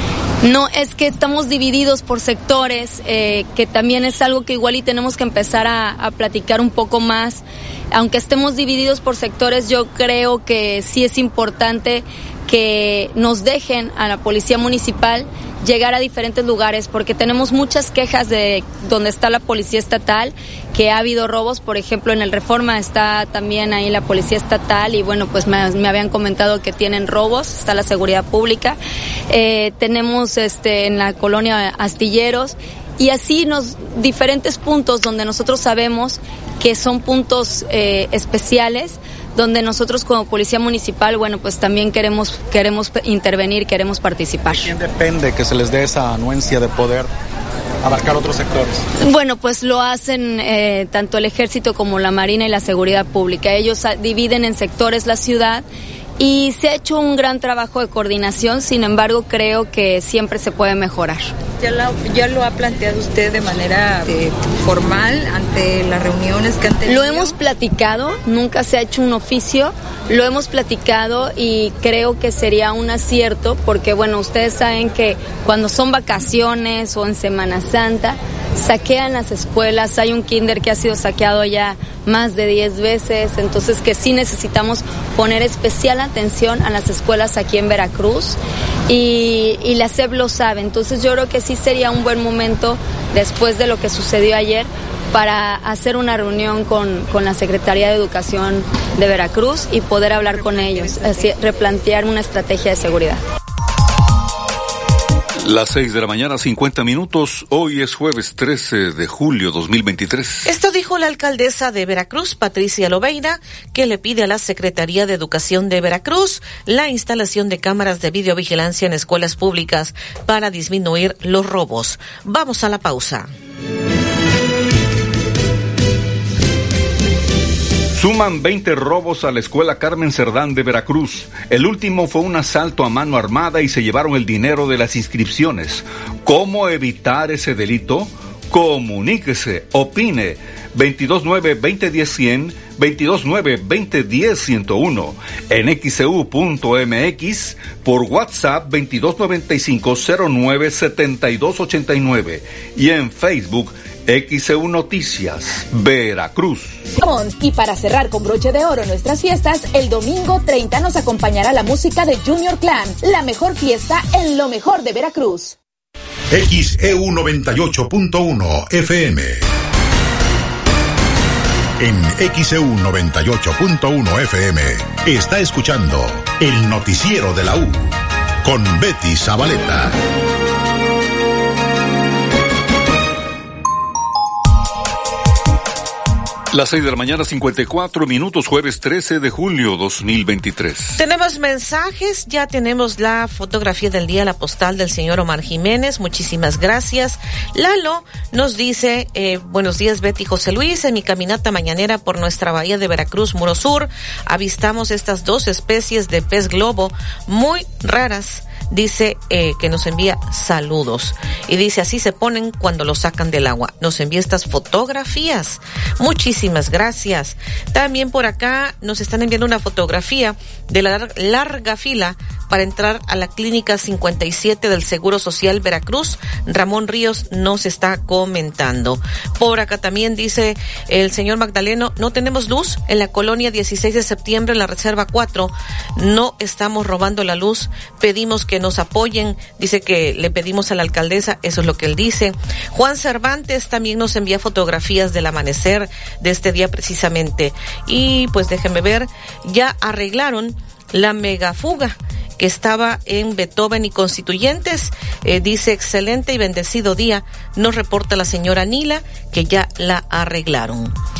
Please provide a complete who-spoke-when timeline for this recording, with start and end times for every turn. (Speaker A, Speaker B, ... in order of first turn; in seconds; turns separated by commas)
Speaker A: 0.4-28.8, Speaker A: 29.3-44.7, Speaker B: 44.5-47.1, Speaker B: 47.8-48.9, Speaker A: 49.0-55.6, Speaker A: 56.2-61.3, Speaker C: 61.6-67.3, Speaker A: 66.8-103.2, Speaker D: 105.4-110.5, Speaker E: 110.5-123.3, Speaker D: 127.9-156.9, Speaker F: 157.0-165.5, Speaker G: 166.3-169.4, Speaker G: 171.8-179.9, Speaker D: 186.5-191.0, Speaker E: 191.0-260.9